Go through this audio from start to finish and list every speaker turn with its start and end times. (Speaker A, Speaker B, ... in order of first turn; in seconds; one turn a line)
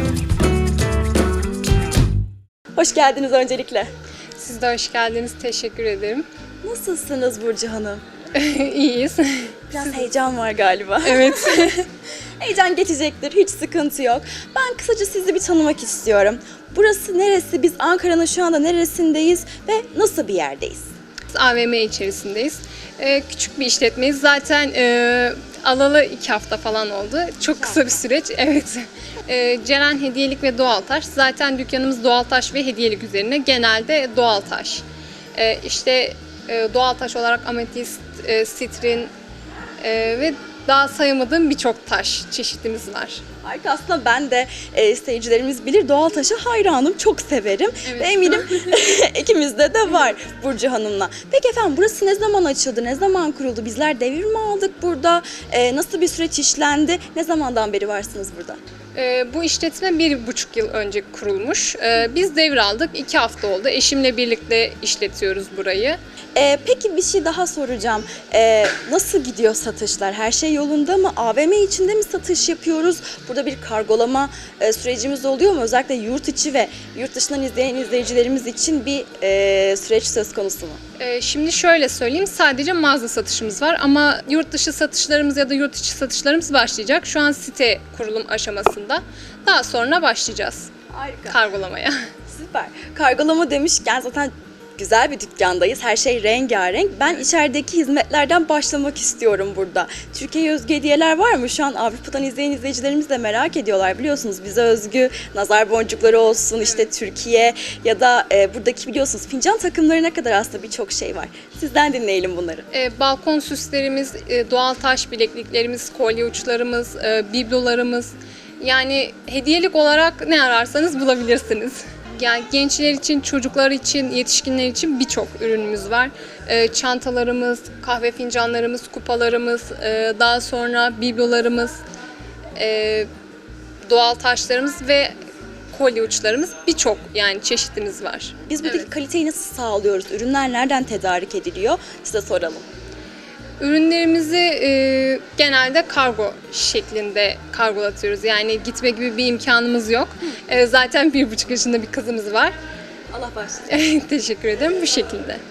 Speaker A: 2.8-3.9
Speaker B: 4.4-6.2
Speaker A: 6.6-8.0
Speaker B: 8.3-10.1
Speaker A: 9.7-11.7
Speaker B: 11.0-11.8
Speaker A: 12.4-20.9
Speaker B: 21.3-34.8
Speaker B: 35.3-39.1
Speaker B: 39.8-43.2
Speaker A: 43.4-58.6
Speaker B: 47.9-48.8
Speaker B: 58.9-66.0
Speaker A: 66.3-80.8
Speaker B: 81.0-90.7
Speaker A: 90.9-91.4
Speaker B: 91.3-92.0
Speaker A: 92.3-112.7
Speaker B: 112.7-131.8
Speaker B: 132.6-133.1
Speaker B: 133.8-135.1
Speaker B: 135.7-138.9
Speaker A: 138.4-142.6
Speaker B: 143.6-152.5
Speaker A: 153.1-153.7
Speaker B: 153.7-155.4